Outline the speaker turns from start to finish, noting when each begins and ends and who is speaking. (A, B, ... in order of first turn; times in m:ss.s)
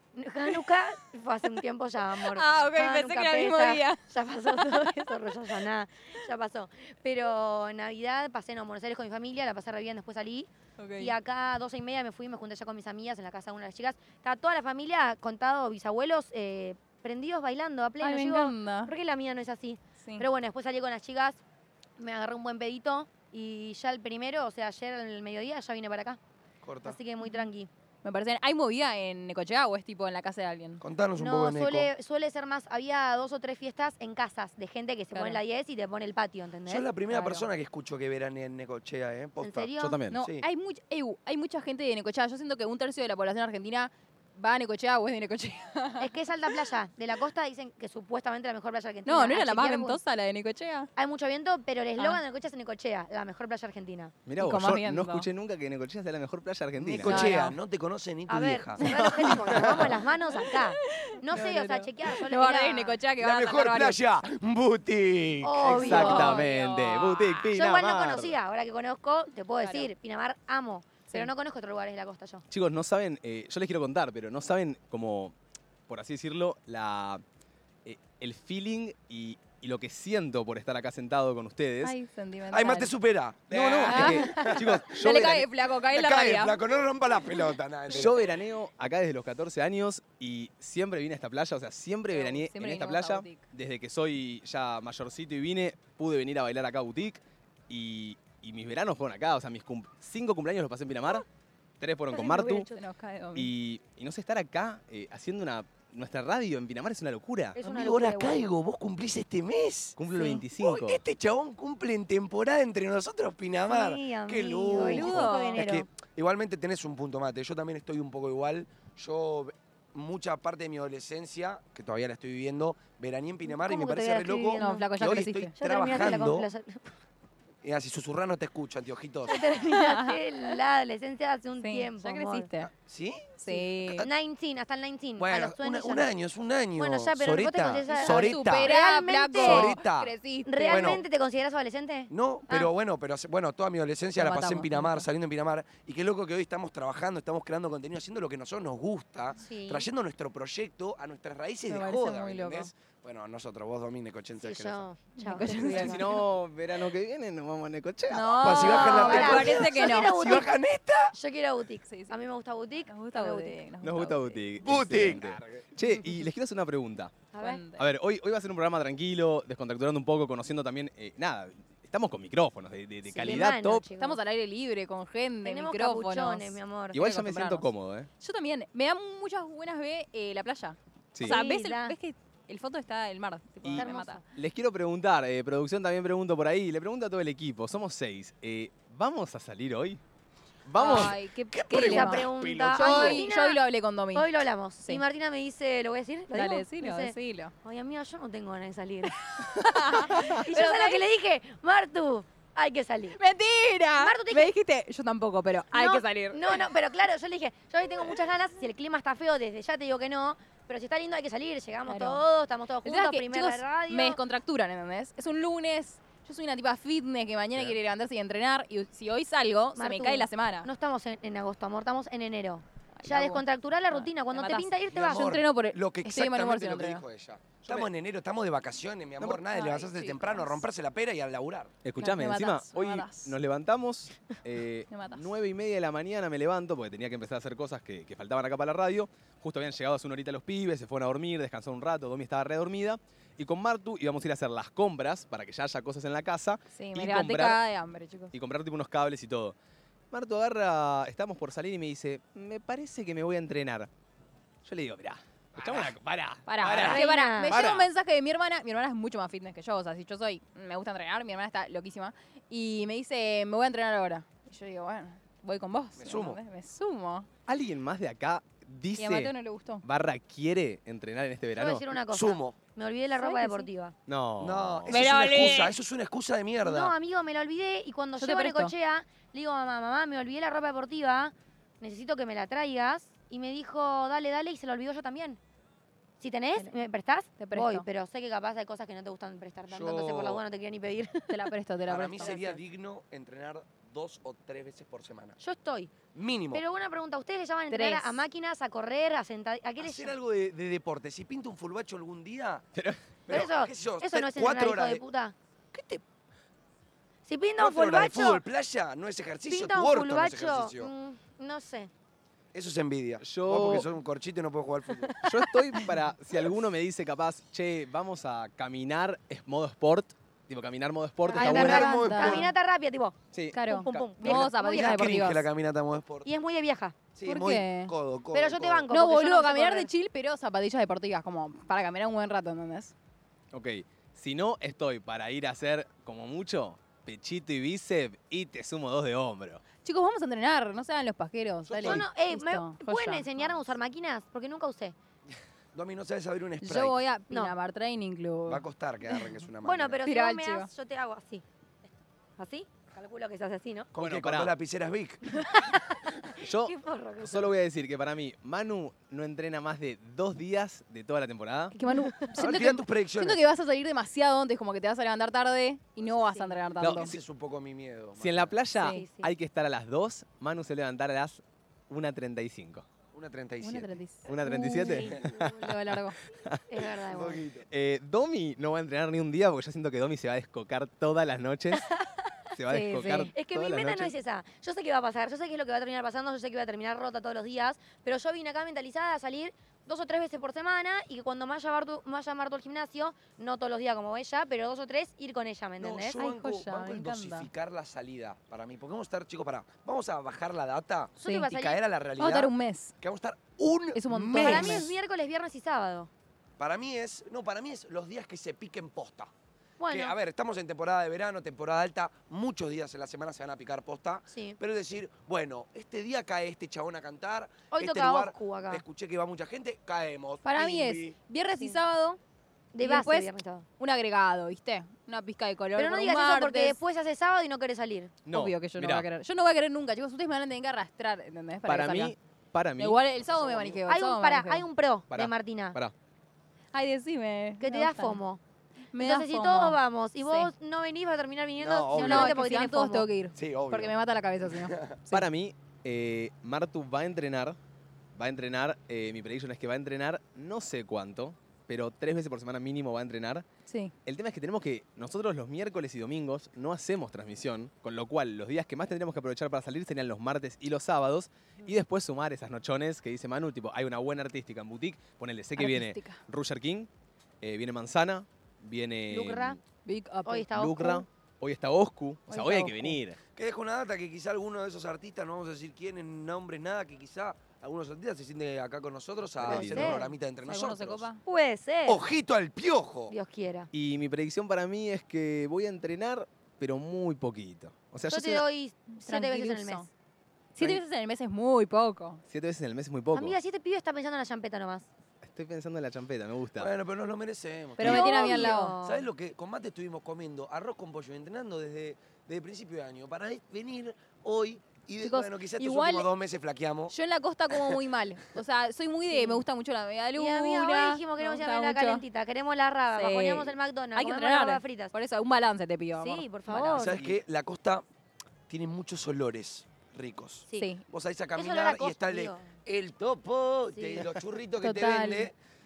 0:00.1-0:21.4 A
0:00.4-0:00.8 B
0:02.2-0:05.6 B
0:10.8-0:11.1 B
0:18.0-0:18.9 B
0:20.0-0:20.2 B
0:22.0-0:26.2 A
0:26.6-0:27.0 C
0:26.8-0:27.7 A
0:27.2-0:27.5 B
0:28.0-0:30.8 B
0:30.8-0:31.9 C
0:31.2-0:37.4 A
0:35.1-0:35.4 B
0:36.6-0:40.4 C
0:39.4-0:40.0 A
0:39.8-0:40.2 D
0:40.1-0:46.6 B
0:46.0-0:50.0 A
0:49.0-0:50.9 B
0:51.0-0:54.1 A
0:54.2-0:57.3 D
0:54.4-0:55.3 B
0:56.8-0:58.9 C
0:57.0-0:57.6 B
0:57.1-0:57.4 A
0:58.3-1:03.0 A
0:58.8-0:59.9 D
0:59.6-0:59.9 C
1:00.3-1:04.1 B
1:03.2-1:06.2 C
1:05.4-1:06.5 A
1:05.6-1:08.4 D
1:05.7-1:07.5 B
1:07.5-1:12.4 A
1:09.6-1:09.9 B
1:12.5-1:15.3 D
1:15.9-1:17.2 D
1:17.8-1:22.0 D
1:21.8-1:22.9 B
1:22.5-1:25.2 C
1:23.5-1:25.4 D
1:23.8-1:26.6 B
1:24.2-1:24.5 A
1:25.9-1:28.3 C
1:27.9-1:41.2 D
1:32.1-1:33.4 B
1:41.8-1:42.7 D
1:42.1-1:42.8 A
1:42.7-1:43.5 B
1:43.3-1:47.6 D
1:47.6-1:48.4 A
1:47.6-1:50.0 C
1:50.0-1:51.0 D
1:50.2-1:50.4 A
1:50.5-2:06.5 C
1:53.7-1:55.8 A
1:54.8-1:55.6 B
2:03.5-2:04.8 A
2:04.6-2:05.5 B
2:05.6-2:06.9 A
2:07.6-2:09.5 C
2:09.3-2:12.5 A
2:09.6-2:10.6 B
2:11.6-2:12.7 B
2:12.6-2:14.1 C
2:13.4-2:14.1 B
2:13.5-2:16.1 A
2:15.2-2:18.7 C
2:16.8-2:19.7 A
2:17.8-2:21.0 B
2:19.4-2:20.1 C
2:20.4-2:22.7 A
2:20.6-2:21.0 C
2:22.1-2:34.8 C
2:24.2-2:25.1 B
2:29.4-2:29.9 A
2:31.7-2:32.7 B
2:34.4-2:36.1 A
2:35.2-2:36.2 B
2:35.6-2:39.2 D
2:38.1-2:40.4 B
2:38.4-2:41.1 C
2:38.4-2:40.5 A
2:41.1-2:43.6 A
2:41.9-2:42.2 B
2:42.9-2:44.4 B
2:43.8-2:47.1 D
2:44.6-2:45.6 C
2:47.3-2:47.6 A
2:47.4-2:47.8 B
2:47.8-2:53.8 D
2:53.1-2:54.2 A
2:53.2-3:04.2 B
2:55.4-2:57.0 A
2:56.9-2:58.1 D
3:01.1-3:01.4 D
3:01.2-3:02.0 A
3:03.6-3:10.0 D
3:03.7-3:04.2 A
3:10.6-3:11.2 D
3:10.8-3:15.0 B
3:10.8-3:13.2 C
3:11.7-3:13.6 A
3:14.1-3:23.2 A
3:16.3-3:17.5 B
3:19.4-3:21.0 B
3:23.2-3:26.8 B
3:24.0-3:24.5 A
3:25.7-3:34.2 A
3:31.9-3:32.2 B
3:32.8-3:40.7 B
3:39.8-3:45.4 A
3:43.0-3:47.0 B
3:44.9-3:51.7 C
3:47.6-3:47.9 D
3:49.5-3:50.6 B
3:51.8-4:07.6 D
3:52.0-3:53.3 B
3:54.9-3:55.2 B
4:06.7-4:08.3 B
4:08.3-4:09.5 D
4:10.1-4:13.9 D
4:14.6-4:17.9 D
4:16.5-4:27.3 B
4:16.7-4:17.6 A
4:26.0-4:26.4 C
4:27.5-4:31.8 D
4:29.0-4:29.8 B
4:31.5-4:33.9 A
4:32.1-4:32.6 C
4:33.1-4:33.7 B
4:34.1-4:35.0 D
4:34.4-4:36.9 C
4:34.9-4:35.8 B
4:36.6-4:45.4 A
4:38.2-4:38.7 B
4:46.2-4:51.5 A
4:47.4-4:47.8 B
4:49.7-4:50.4 C
4:51.3-4:52.5 B
4:51.9-4:55.4 C
4:52.2-4:52.5 A
4:55.4-4:55.9 A
4:56.1-4:56.6 C
4:56.5-5:00.1 A
4:57.7-4:58.2 B
4:59.8-5:02.6 C
5:02.7-5:03.0 D
5:03.3-5:05.0 C
5:03.3-5:05.3 A
5:05.7-5:06.0 C
5:07.2-5:08.4 A
5:07.6-5:10.9 C
5:09.5-5:11.9 A
5:12.5-5:15.1 C
5:13.2-5:13.9 D
5:15.2-5:22.0 D
5:21.3-5:25.3 A
5:21.4-5:22.5 C
5:21.4-5:22.5 B
5:23.3-5:23.6 D
5:23.5-5:25.4 B
5:24.2-5:26.3 C
5:26.2-5:27.0 A
5:27.1-5:28.8 C
5:27.2-5:27.9 B
5:28.3-5:29.9 A
5:28.9-5:32.9 B
5:33.5-5:39.6 D
5:39.8-5:43.6 B
5:41.7-5:42.0 D
5:41.8-5:44.9 A
5:45.7-5:47.0 C
5:46.6-5:49.3 B
5:48.4-5:50.0 C
5:49.6-5:51.4 A
5:50.0-5:50.7 B
5:52.4-5:53.9 A
5:53.9-5:55.2 C
5:54.0-5:54.5 D
5:55.3-5:57.5 A
5:56.4-6:01.8 D
6:01.7-6:07.1 B
6:01.8-6:02.3 A
6:02.3-6:03.4 C
6:06.0-6:06.8 A
6:06.8-6:07.2 D
6:06.8-6:08.6 C
6:08.2-6:12.8 D
6:08.8-6:09.0 B
6:08.8-6:09.3 A
6:13.1-6:13.9 C
6:13.6-6:16.2 B
6:14.2-6:15.7 D
6:14.7-6:15.5 A
6:16.3-6:16.8 D
6:16.7-6:17.4 A
6:17.0-6:17.7 C
6:17.7-6:21.9 D
6:21.8-6:22.3 A
6:22.5-6:24.1 D
6:22.7-6:23.3 B
6:23.0-6:36.2 A
6:35.8-6:44.9 C
6:36.2-6:37.5 B
6:41.2-6:41.8 A
6:41.2-6:41.5 B
6:42.2-6:42.9 B
6:43.9-6:44.9 B
6:44.4-6:46.1 A
6:46.6-6:49.3 C
6:49.8-6:50.1 A
6:49.9-7:01.2 C
6:54.3-6:54.6 A
6:57.7-6:58.8 A
7:00.4-7:02.2 B
7:02.7-7:03.6 A
7:02.8-7:06.8 B
7:05.8-7:08.1 A
7:08.2-7:09.1 D
7:08.3-7:12.1 B
7:11.7-7:13.0 D
7:12.8-7:14.6 B
7:13.2-7:13.8 C
7:13.9-7:15.8 A
7:15.1-7:15.9 D
7:16.7-7:18.2 B
7:17.6-7:18.4 A
7:18.9-7:20.5 B
7:19.0-7:23.1 A
7:21.6-7:22.4 C
7:21.9-7:25.2 B
7:23.3-7:25.0 C
7:25.1-7:27.6 D
7:28.1-7:33.4 D
7:33.6-7:33.9 B
7:34.0-7:46.9 D
7:45.6-7:46.2 B
7:47.4-7:49.6 D
7:49.1-7:49.6 A
7:49.8-7:50.5 B
7:50.2-7:51.0 A
7:50.5-7:53.2 D
7:52.3-7:53.0 B
7:53.3-8:01.0 C
7:59.4-8:00.0 D
7:59.5-8:00.1 A
8:00.4-8:01.2 B
8:01.2-8:02.0 A
8:01.8-8:03.1 C
8:03.1-8:03.7 A
8:03.7-8:08.4 D
8:08.1-8:09.9 A
8:09.0-8:09.9 B
8:10.5-8:12.2 B
8:12.3-8:13.4 D
8:13.1-8:14.9 A
8:15.2-8:16.7 D
8:16.6-8:26.9 C
8:17.8-8:18.7 B
8:17.8-8:19.1 A
8:25.0-8:26.1 B
8:26.9-8:32.0 B
8:27.5-8:27.8 C
8:29.1-8:29.4 A
8:30.2-8:34.9 A
8:32.9-8:36.9 B
8:36.0-8:37.0 A
8:36.7-8:37.8 C
8:38.5-8:45.3 C
8:40.6-8:40.8 B
8:41.4-8:42.5 A
8:43.7-8:44.0 A
8:44.6-8:45.3 B